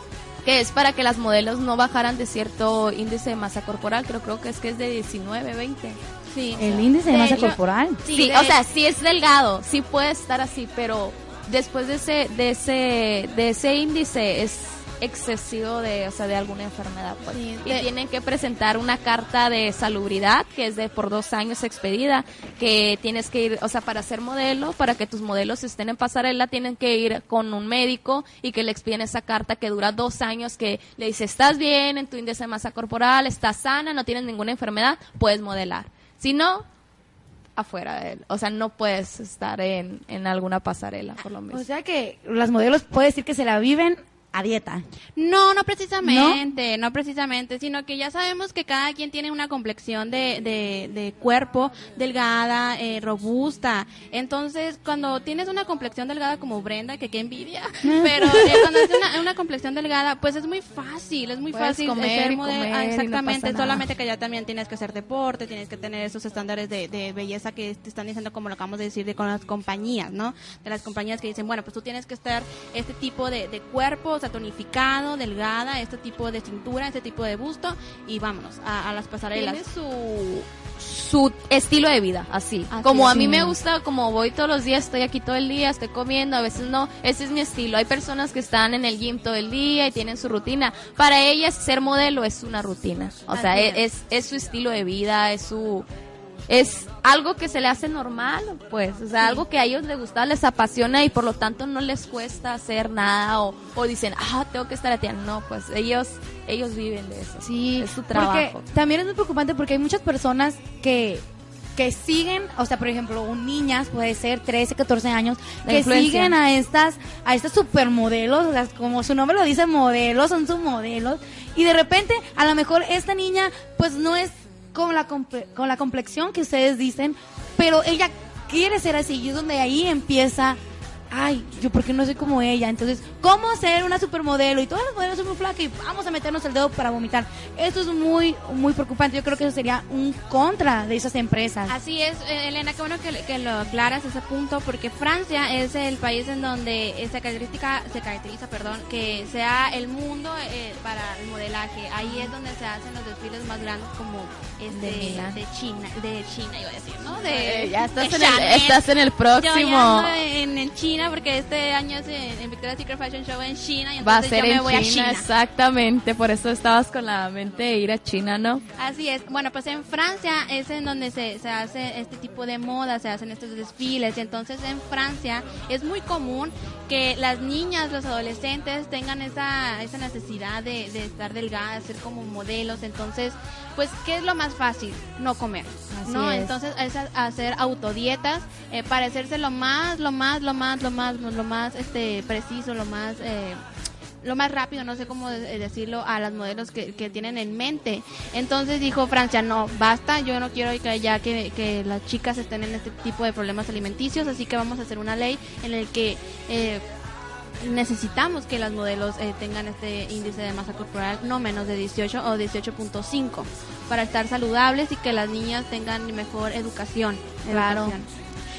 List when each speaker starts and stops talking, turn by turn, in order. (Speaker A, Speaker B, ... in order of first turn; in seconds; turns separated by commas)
Speaker A: 0.4-6.0, Speaker B: 6.3-8.6, Speaker C: 6.6-8.0, Speaker A: 8.1-36.7, Speaker B: 17.3-17.9, Speaker A: 37.6-41.6, Speaker C: 41.5-44.8, Speaker B: 45.2-79.6, Speaker C: 46.0-46.4, Speaker C: 57.9-59.0, Speaker A: 61.5-63.8, Speaker A: 79.3-95.9, Speaker B: 82.7-83.3, Speaker C: 83.1-83.5, Speaker B: 93.3-93.7, Speaker A: 96.5-108.6, Speaker C: 107.4-111.2, Speaker C: 111.8-130.6, Speaker A: 115.6-116.4, Speaker C: 131.1-141.8, Speaker B: 141.7-165.2, Speaker A: 154.7-155.4, Speaker A: 157.2-160.1, Speaker A: 164.0-168.6, Speaker B: 168.8-193.6, Speaker C: 185.9-186.6, Speaker B: 194.2-206.8, Speaker B: 207.6-218.1, Speaker C: 217.5-218.0